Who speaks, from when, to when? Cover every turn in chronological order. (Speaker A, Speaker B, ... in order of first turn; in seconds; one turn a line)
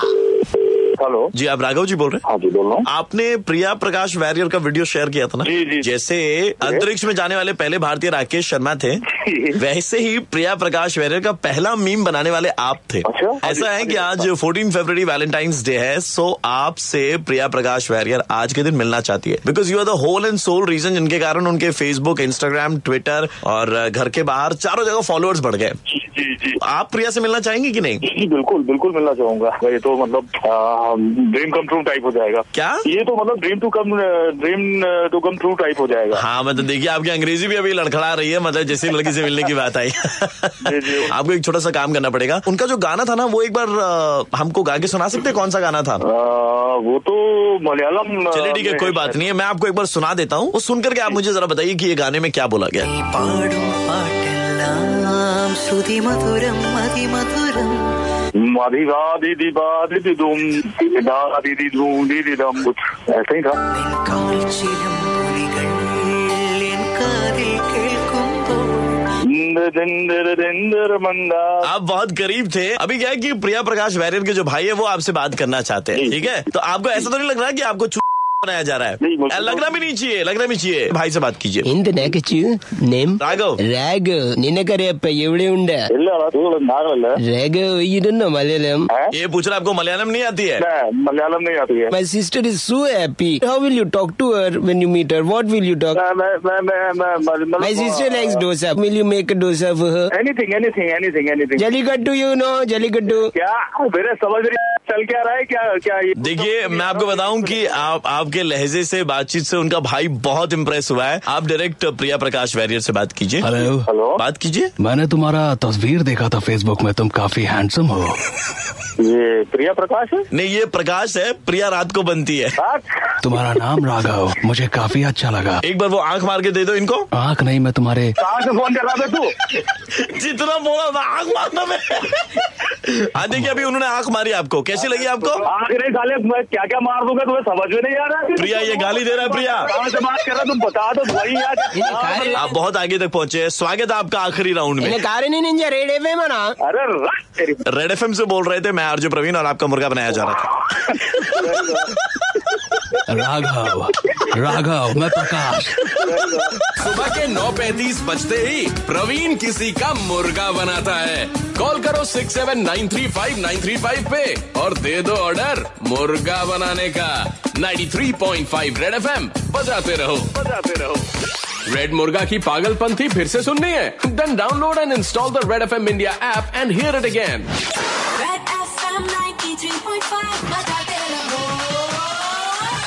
Speaker A: 1.0-1.3
Speaker B: 1.3-2.2
Speaker A: 2.3-2.9
Speaker B: 2.9-9.0
Speaker A: 5.4-5.9
Speaker A: 9.1-9.6
Speaker B: 9.6-25.8
Speaker A: 13.1-14.3
Speaker A: 25.9-26.6
Speaker B: 26.6-28.0
Speaker A: 28.0-36.2
Speaker B: 32.5-32.8
Speaker B: 36.1-46.0
Speaker A: 40.6-41.1
Speaker A: 46.0-49.3
Speaker B: 48.3-52.9
Speaker C: 52.9-57.8
Speaker A: 58.4-63.6
Speaker C: 63.7-68.9
Speaker A: 69.3-71.6
Speaker B: 71.6-81.7
Speaker A: 79.0-79.7
Speaker D: 81.7-85.9
Speaker B: 83.2-83.6
Speaker A: 85.9-87.2
Speaker D: 87.2-88.9
Speaker B: 89.1-90.7
Speaker A: 90.6-91.9
Speaker D: 91.9-96.0
Speaker A: 95.9-98.5
Speaker D: 97.6-100.1
Speaker A: 100.1-101.6
Speaker D: 101.6-103.3
Speaker A: 103.3-107.6
Speaker B: 106.2-113.5
Speaker E: 113.4-113.9
Speaker A: 113.9-114.2
Speaker B: 114.2-114.7
Speaker E: 114.8-118.2
Speaker A: 119.0-120.2
Speaker B: 120.3-122.5
Speaker E: 123.2-125.6
Speaker B: 125.6-127.0
Speaker E: 127.1-128.2
Speaker A: 128.2-129.3
Speaker B: 129.5-135.5
Speaker A: 134.8-142.4
Speaker B: 138.4-139.7
Speaker D: 141.8-142.5
Speaker B: 142.3-145.0
Speaker D: 144.8-146.5
Speaker A: 146.6-147.6
Speaker B: 147.7-150.6
Speaker A: 151.2-151.9
Speaker E: 153.1-156.1
Speaker A: 156.0-156.5
Speaker F: 156.8-171.0
Speaker F: 171.7-177.5
Speaker G: 178.1-182.6